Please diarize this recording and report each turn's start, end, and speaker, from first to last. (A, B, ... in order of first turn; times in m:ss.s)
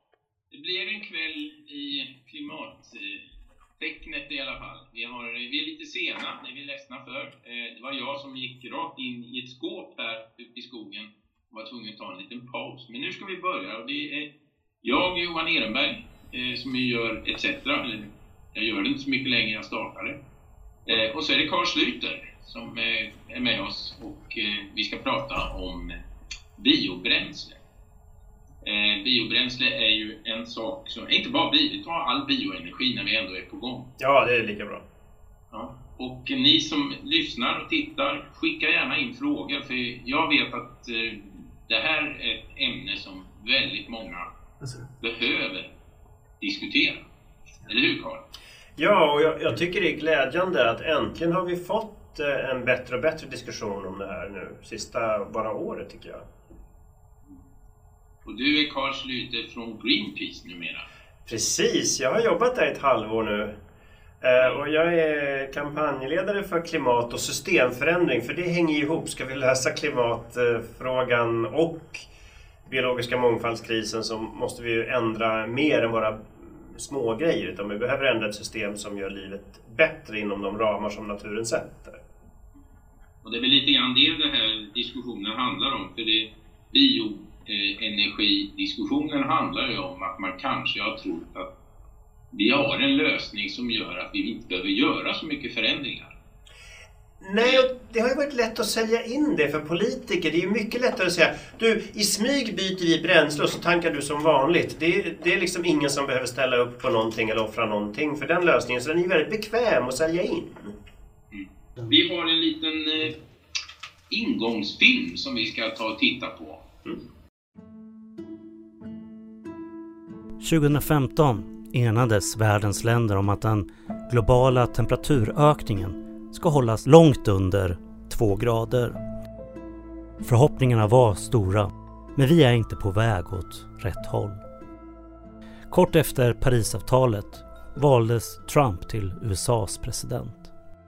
0:00.5-0:03.2 A
0:03.8-0:14.3 A
0:14.8-0:20.2 A
0:20.8-0:26.0 A
0:26.6-0:27.6 A
0:28.6-0:33.9 A
0:34.0-0:34.8 B
0:35.5-0:44.3 A
0:45.0-0:45.7 A
0:46.4-0:47.0 A
0:47.6-0:48.2 A
0:48.8-0:56.2 B
0:58.2-1:00.9 A
1:01.2-1:03.6 B
1:04.2-1:12.0 B
1:12.6-1:22.0 B
1:23.2-1:31.5 A
1:32.3-1:36.2 A
1:37.2-1:50.7 B
1:37.4-1:37.6 A
1:51.3-1:53.2 A
1:54.1-1:56.6 A
2:00.4-2:09.0 C
2:10.2-2:14.4 C
2:15.7-2:20.5 C